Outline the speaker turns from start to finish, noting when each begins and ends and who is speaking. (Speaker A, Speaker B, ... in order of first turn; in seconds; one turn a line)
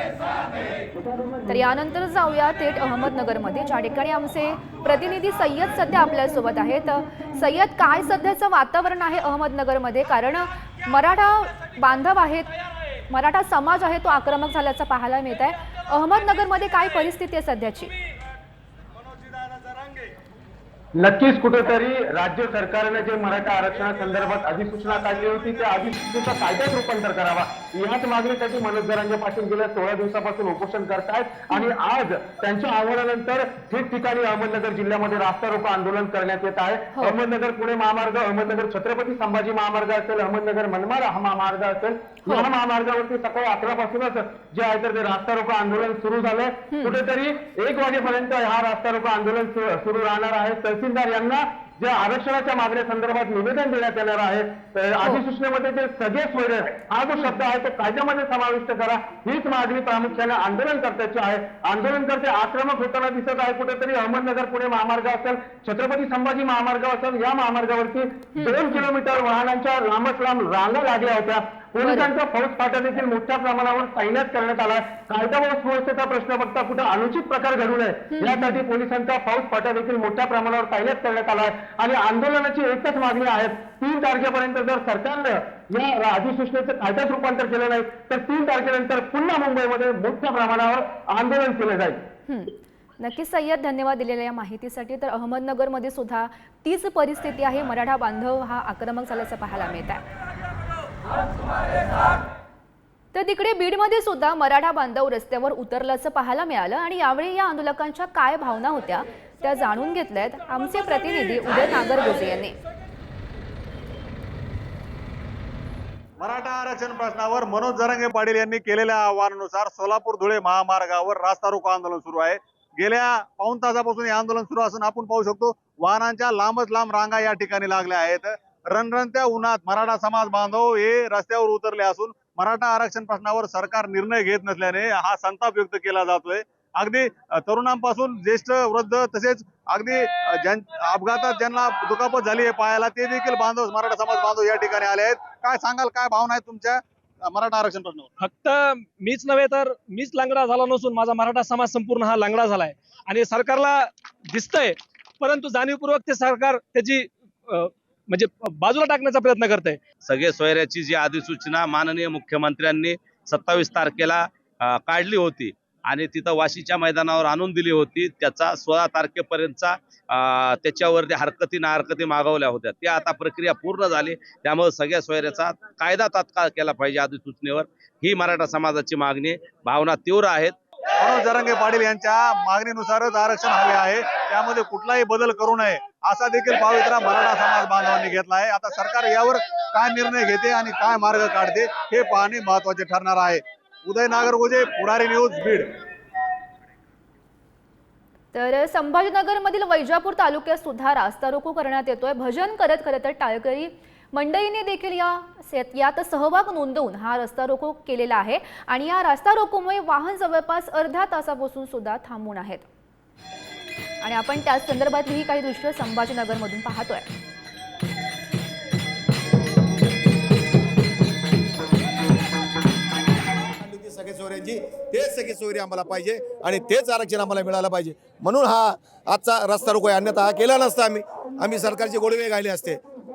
Speaker A: 1.5-12.5
Speaker A: 13.1-17.9
Speaker B: 20.9-92.0
Speaker A: 68.3-68.8
Speaker A: 71.8-72.1
Speaker A: 78.1-78.6
Speaker A: 92.3-100.0
Speaker A: 103.1-112.6
Speaker C: 116.2-148.1
Speaker D: 148.2-159.8
Speaker E: 160.0-180.6
Speaker C: 181.0-195.7
Speaker A: 198.3-212.7
Speaker A: 214.0-217.1
Speaker F: 223.6-232.8